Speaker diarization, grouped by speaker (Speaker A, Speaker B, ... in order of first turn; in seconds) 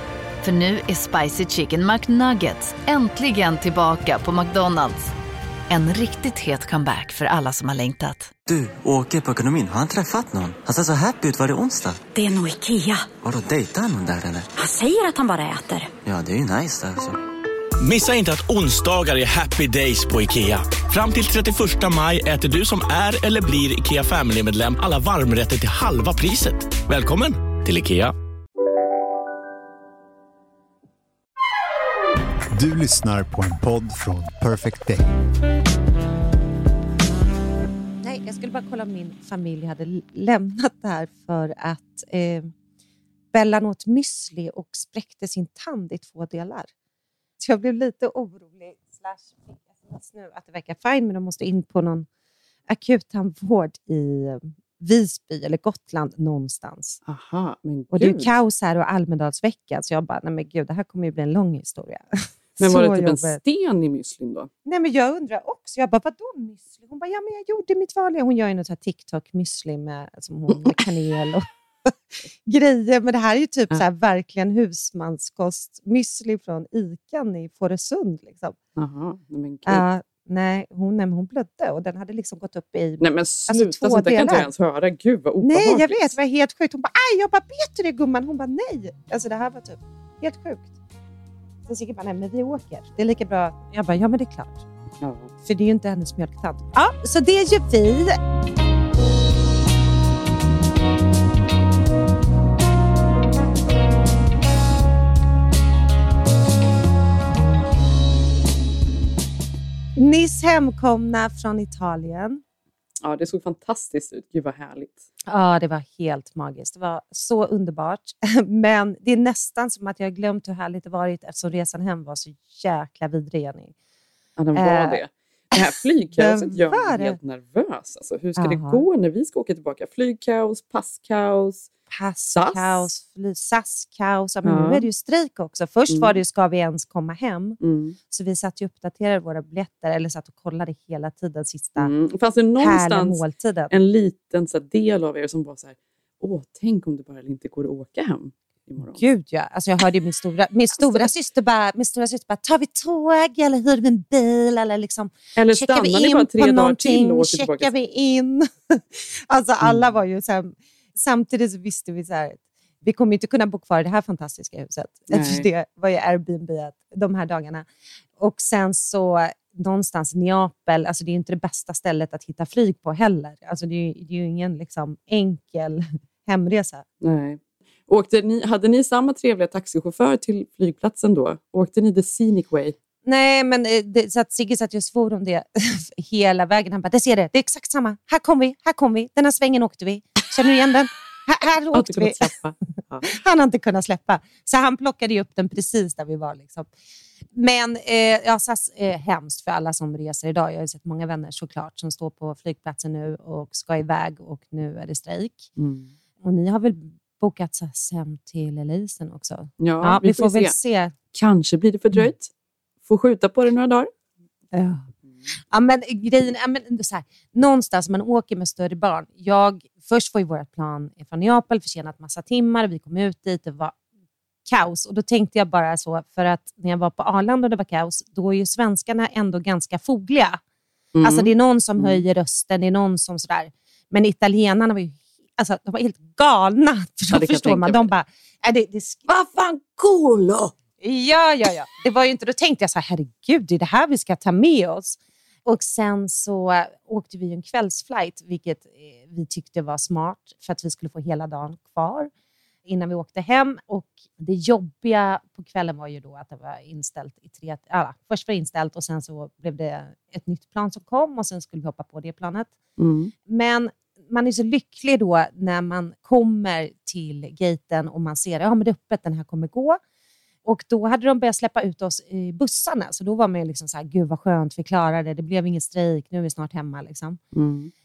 Speaker A: 0.4-5.1, 5.7-8.3
Speaker B: 8.4-12.0, 13.2-14.5, 16.0-17.2
Speaker C: 12.1-13.1, 14.6-15.9
Speaker D: 17.8-28.1
Speaker E: 32.5-35.0
Speaker F: 38.0-42.5, 43.3-46.7, 47.4-52.1, 52.7-57.0, 57.9-63.4, 64.6-71.4, 72.5-78.6, 79.7-84.5, 85.4-90.7, 91.7-94.6, 95.4-98.2, 110.0-112.4, 115.3-123.7, 124.5-125.0, 126.2-127.2, 128.4-128.8, 131.9-141.9, 142.6-143.7, 148.8-167.7, 168.2-176.8, 183.0-192.2, 193.1-196.7, 197.3-205.5, 206.2-210.9, 214.5-214.9, 215.5-223.7, 224.5-230.4, 231.0-239.1, 240.8-252.1, 252.7-262.5, 263.3-269.8, 270.4-277.2
Speaker G: 57.0-58.3, 62.6-64.5, 78.8-79.8, 83.0-86.2, 95.0-95.3, 113.0-115.1, 124.4-131.7, 132.3-132.9, 134.4-134.9, 135.9-136.2, 137.6-138.0, 141.8-149.0, 150.7-151.1, 155.3-157.7, 159.6-159.9, 165.1-165.5, 177.0-182.8, 191.7-193.1, 205.6-205.9, 209.6-210.5, 211.1-212.3, 212.8-213.9, 230.9-232.0, 237.1-237.9, 239.1-240.5, 262.8-263.1, 277.3-277.7